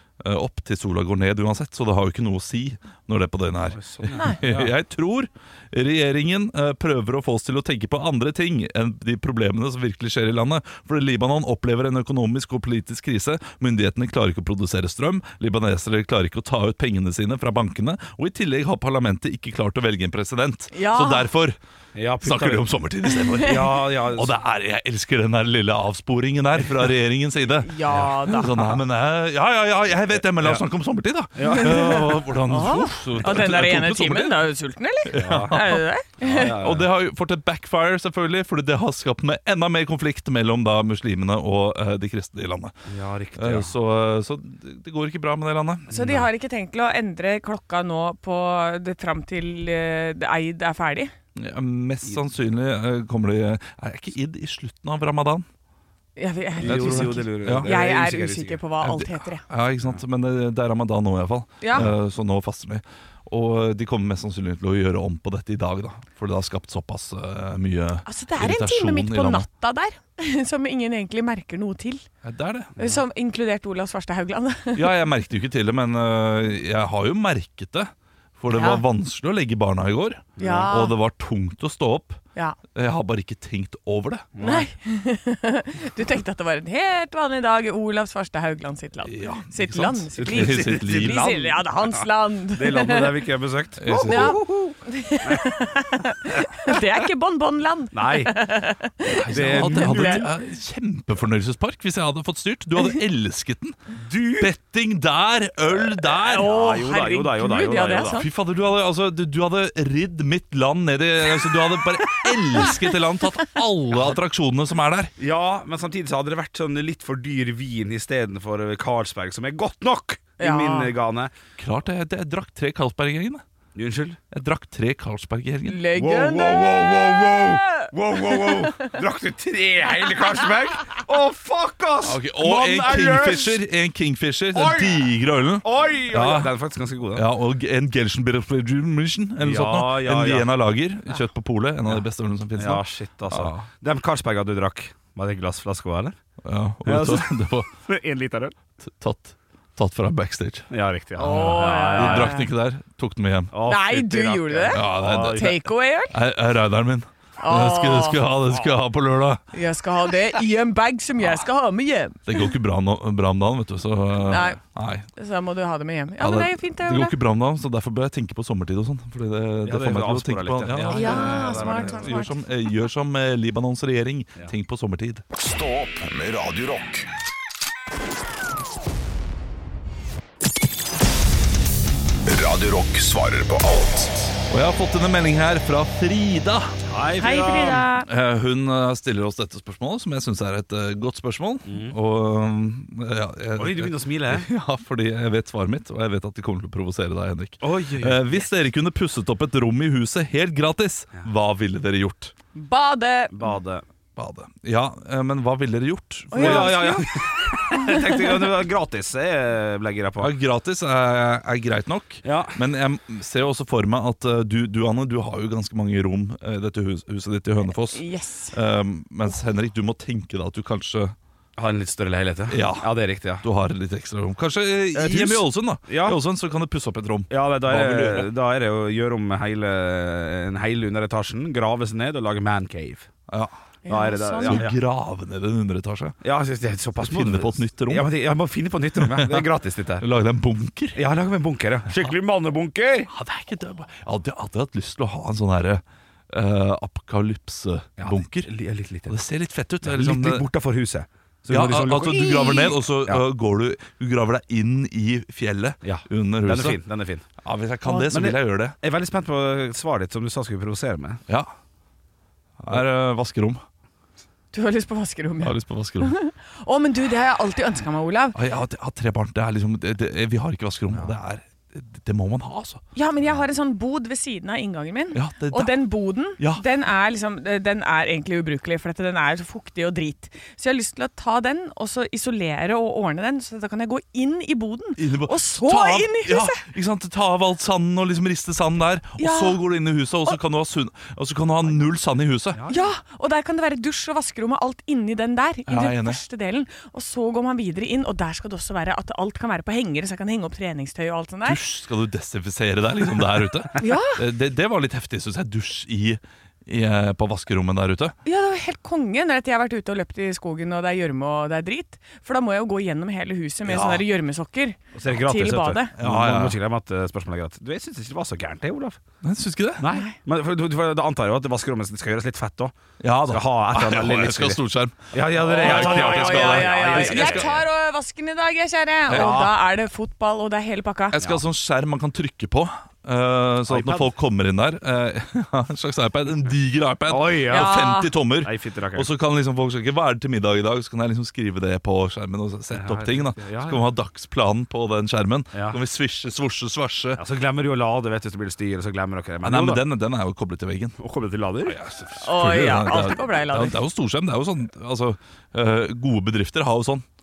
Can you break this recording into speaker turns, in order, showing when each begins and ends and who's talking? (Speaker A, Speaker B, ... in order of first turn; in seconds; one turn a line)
Speaker A: 0.2-21.6
Speaker B: 3.7-4.7
Speaker C: 20.7-21.2
Speaker B: 21.9-22.6
Speaker A: 22.2-34.4
Speaker C: 23.2-23.6
Speaker B: 23.4-24.3
Speaker C: 27.6-28.6
Speaker B: 27.9-28.8
Speaker B: 30.1-30.6
Speaker B: 31.4-32.0
Speaker C: 31.5-36.5
Speaker A: 35.1-42.8
Speaker B: 35.1-36.9
Speaker B: 42.9-43.7
Speaker A: 43.4-45.9
Speaker B: 45.9-46.3
Speaker C: 45.9-51.1
Speaker A: 51.4-55.4
Speaker C: 56.2-59.4
Speaker B: 56.6-58.6
Speaker A: 56.6-57.7
Speaker A: 58.8-69.5
Speaker C: 61.6-61.9
Speaker C: 68.0-72.0
Speaker A: 72.2-72.7
Speaker B: 72.8-73.0
Speaker C: 72.8-74.9
Speaker A: 74.7-82.2
Speaker C: 78.5-78.8
Speaker B: 80.4-80.7
Speaker C: 80.4-81.0
Speaker A: 82.7-84.3
Speaker B: 84.3-84.7
Speaker C: 84.4-93.2
Speaker A: 89.0-91.3
Speaker B: 90.2-94.6
Speaker A: 93.8-94.4
Speaker C: 94.0-100.3
Speaker B: 97.9-98.3
Speaker A: 99.1-106.5
Speaker B: 99.3-100.3
Speaker B: 104.0-104.5
Speaker C: 106.1-108.3
Speaker B: 106.3-108.2
Speaker A: 108.1-115.1
Speaker C: 112.1-112.9
Speaker B: 115.2-121.3
Speaker C: 120.4-120.9
Speaker A: 121.6-123.4
Speaker B: 123.7-124.2
Speaker A: 124.3-125.9
Speaker C: 125.7-128.9
Speaker B: 125.9-133.6
Speaker A: 132.0-136.5
Speaker B: 134.5-137.3
Speaker A: 137.1-143.6
Speaker B: 139.4-140.5
Speaker B: 142.6-146.2
Speaker A: 146.4-147.7
Speaker B: 146.8-147.3
Speaker B: 147.8-148.6
Speaker A: 148.8-150.7
Speaker B: 150.7-152.3
Speaker C: 151.2-152.5
Speaker A: 151.3-153.6
Speaker B: 153.5-155.6
Speaker C: 153.6-156.1
Speaker A: 154.7-155.6
Speaker A: 156.1-159.4
Speaker C: 157.4-158.2
Speaker C: 159.5-162.5
Speaker A: 162.3-165.1
Speaker C: 164.3-164.6
Speaker C: 165.2-167.2
Speaker A: 166.2-175.2
Speaker B: 169.6-172.2
Speaker C: 170.9-172.4
Speaker D: 175.3-177.1
Speaker D: 182.2-184.3
Speaker A: 184.5-186.8
Speaker B: 186.9-187.8
Speaker C: 187.2-188.1
Speaker A: 188.0-202.3
Speaker B: 191.6-191.9
Speaker B: 193.6-194.5
Speaker B: 197.6-198.5
Speaker C: 202.6-203.5
Speaker B: 203.3-203.9
Speaker A: 204.2-207.0
Speaker C: 206.3-208.1
Speaker B: 206.3-210.3
Speaker A: 210.2-221.1
Speaker B: 212.2-212.6
Speaker C: 217.9-218.6
Speaker B: 221.6-223.4
Speaker A: 222.5-228.3
Speaker B: 224.9-226.2
Speaker B: 227.3-233.1
Speaker C: 233.8-234.7
Speaker B: 233.9-234.8
Speaker A: 234.4-236.2
Speaker B: 236.2-240.0
Speaker A: 237.0-238.1
Speaker A: 239.0-239.5
Speaker A: 240.0-241.0
Speaker B: 240.9-243.1
Speaker A: 243.1-248.5
Speaker B: 248.0-249.2
Speaker A: 249.1-250.4
Speaker B: 249.8-253.2
Speaker A: 251.5-256.8
Speaker C: 252.4-252.7
Speaker B: 255.8-257.2
Speaker A: 257.4-258.8
Speaker C: 257.9-258.1
Speaker B: 258.1-261.2
Speaker A: 262.6-263.6
Speaker C: 264.5-268.4
Speaker A: 265.4-266.1
Speaker A: 268.3-272.8
Speaker C: 272.9-286.6
Speaker A: 275.1-276.6
Speaker A: 285.0-292.6
Speaker C: 289.2-289.6
Speaker B: 292.5-292.9
Speaker C: 292.7-301.6
Speaker A: 295.7-296.2
Speaker A: 301.4-308.1
Speaker C: 303.8-304.2
Speaker C: 308.2-315.9
Speaker A: 313.6-314.1
Speaker B: 314.9-319.0
Speaker A: 315.9-316.6
Speaker A: 319.2-319.8
Speaker B: 319.8-322.7
Speaker C: 319.9-320.1
Speaker A: 323.0-327.6
Speaker B: 323.2-324.6
Speaker B: 325.1-327.6
Speaker C: 325.5-331.1
Speaker B: 329.1-329.6
Speaker A: 329.1-329.5
Speaker A: 331.1-347.2
Speaker B: 333.7-334.1
Speaker B: 337.1-337.8
Speaker C: 337.5-338.1
Speaker B: 338.4-339.1
Speaker B: 342.7-343.8
Speaker B: 345.5-345.8
Speaker B: 347.1-349.8
Speaker A: 349.4-351.0
Speaker B: 351.0-351.8
Speaker A: 351.6-357.1
Speaker C: 352.2-353.8